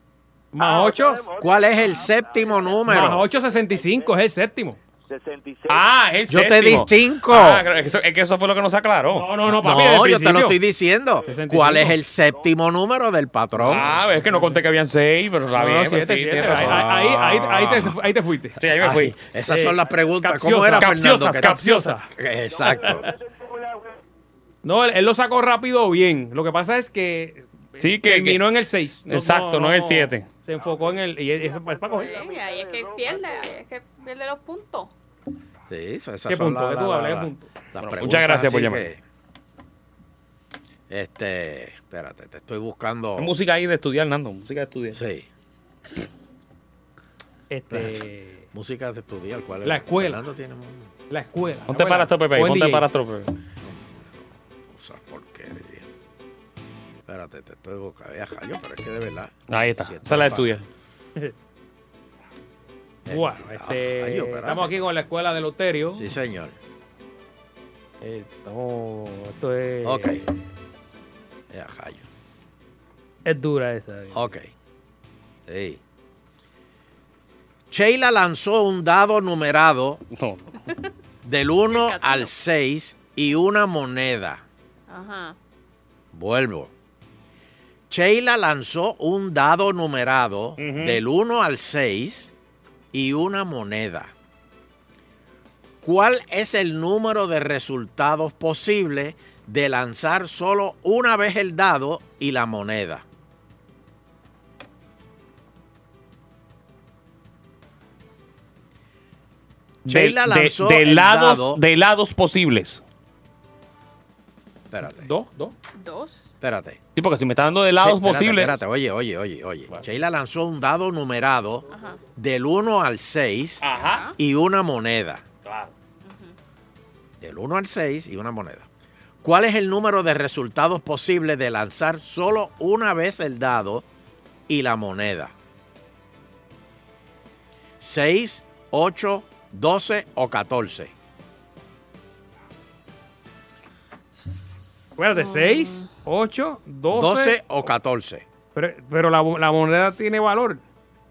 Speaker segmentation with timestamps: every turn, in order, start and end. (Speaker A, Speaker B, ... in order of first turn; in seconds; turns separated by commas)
Speaker A: 0.5-1.3, Speaker B: 0.6-4.2, Speaker C: 1.4-3.3, Speaker A: 2.9-4.8, Speaker B: 5.1-5.8, Speaker D: 5.7-9.3, Speaker C: 6.3-7.6, Speaker A: 9.1-10.6, Speaker C: 9.5-13.8, Speaker B: 11.2-11.6, Speaker A: 11.3-12.0, Speaker B: 12.1-12.5, Speaker A: 13.6-14.6, Speaker D: 13.7-17.7, Speaker A: 15.6-18.6, Speaker C: 16.5-17.7, Speaker D: 18.6-19.1, Speaker C: 18.8-21.6, Speaker A: 19.4-22.1, Speaker D: 20.8-22.1, Speaker C: 22.1-23.1, Speaker B: 22.5-24.0, Speaker A: 24.6-32.2, Speaker D: 27.8-28.4, Speaker D: 29.1-30.3, Speaker B: 30.7-33.5, Speaker E: 31.9-34.9, Speaker C: 35.7-39.0, Speaker A: 36.3-37.5, Speaker D: 37.8-38.9, Speaker C: 40.9-43.3, Speaker D: 43.2-45.0, Speaker C: 44.9-45.3, Speaker A: 47.5-48.5, Speaker C: 47.7-48.0, Speaker C: 48.5-50.9, Speaker A: 49.6-50.2, Speaker A: 51.1-52.9, Speaker D: 51.7-53.3, Speaker C: 53.6-55.9, Speaker C: 57.1-60.6, Speaker D: 59.5-60.6, Speaker C: 63.0-64.8, Speaker A: 63.1-66.1, Speaker C: 66.0-66.5, Speaker A: 68.0-70.2, Speaker C: 69.8-70.2, Speaker C: 71.5-72.0, Speaker A: 73.2-74.3, Speaker C: 74.1-74.5, Speaker C: 75.5-75.8, Speaker C: 77.7-80.0, Speaker D: 80.1-80.6, Speaker C: 81.2-84.4, Speaker E: 81.7-82.3, Speaker E: 84.9-85.3, Speaker C: 86.1-86.7, Speaker C: 87.9-92.3, Speaker D: 90.6-91.0, Speaker C: 92.9-94.1, Speaker C: 95.8-103.0, Speaker D: 109.8-112.8, Speaker C: 109.8-111.6, Speaker C: 114.7-115.1, Speaker A: 114.8-115.5, Speaker E: 115.8-116.3, Speaker C: 116.4-116.8, Speaker D: 117.0-118.6, Speaker C: 117.8-121.6, Speaker E: 121.7-122.0, Speaker C: 122.2-125.2, Speaker D: 123.6-124.1, Speaker E: 123.7-124.1, Speaker D: 125.4-125.7, Speaker E: 126.0-126.3, Speaker C: 127.2-128.7, Speaker C: 129.2-133.8, Speaker C: 134.5-135.3, Speaker C: 137.8-140.9, Speaker E: 144.1-145.9, Speaker A: 145.0-147.4, Speaker C: 146.9-148.2, Speaker A: 148.5-150.6